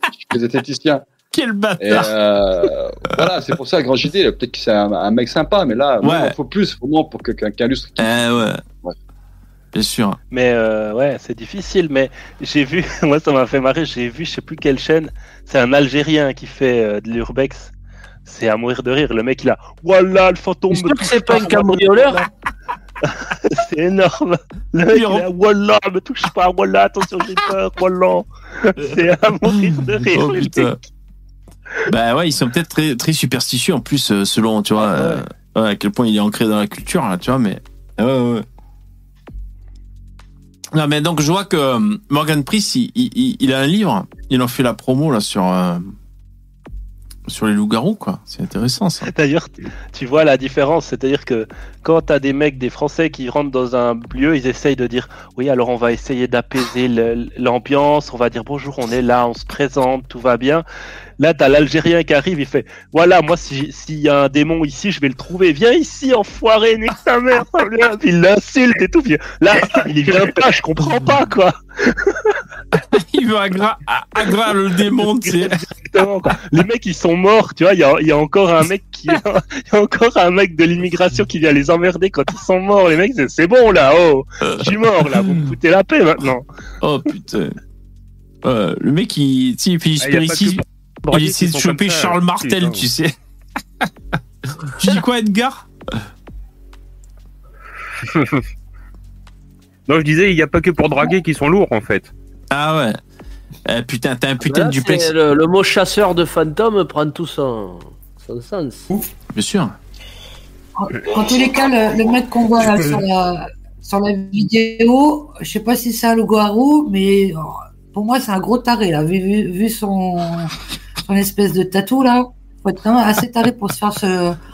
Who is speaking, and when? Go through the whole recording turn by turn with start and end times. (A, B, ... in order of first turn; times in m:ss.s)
0:00.2-0:01.0 A
0:01.3-0:02.1 B
0:01.8-0:09.0 A
0:06.0-0:06.4 B
0:08.0-0:08.6 B
0:09.8-0:10.2 B
0:10.3-0:17.7 C
0:18.3-0:22.3 C
0:20.7-0:22.3 D
0:23.0-0:30.8 C
0:24.9-0:25.2 B
0:30.1-0:30.8 B
0:31.9-0:38.4 B
0:34.8-0:35.2 C
0:40.7-0:46.0 B
0:47.3-0:49.1 B
0:49.1-1:00.6 C
1:01.2-1:12.4 C
1:12.9-1:15.6 B
1:15.2-1:26.4 C
1:26.8-1:27.6 B
1:28.4-1:33.1 B
1:30.0-1:32.8 E
1:34.8-1:35.7 B
1:38.0-1:38.4 E
1:39.9-1:42.1 E
1:42.5-1:43.0 B
1:43.7-1:45.1 B
1:44.4-1:48.9 D
1:49.4-1:49.8 B
1:50.8-2:04.4 F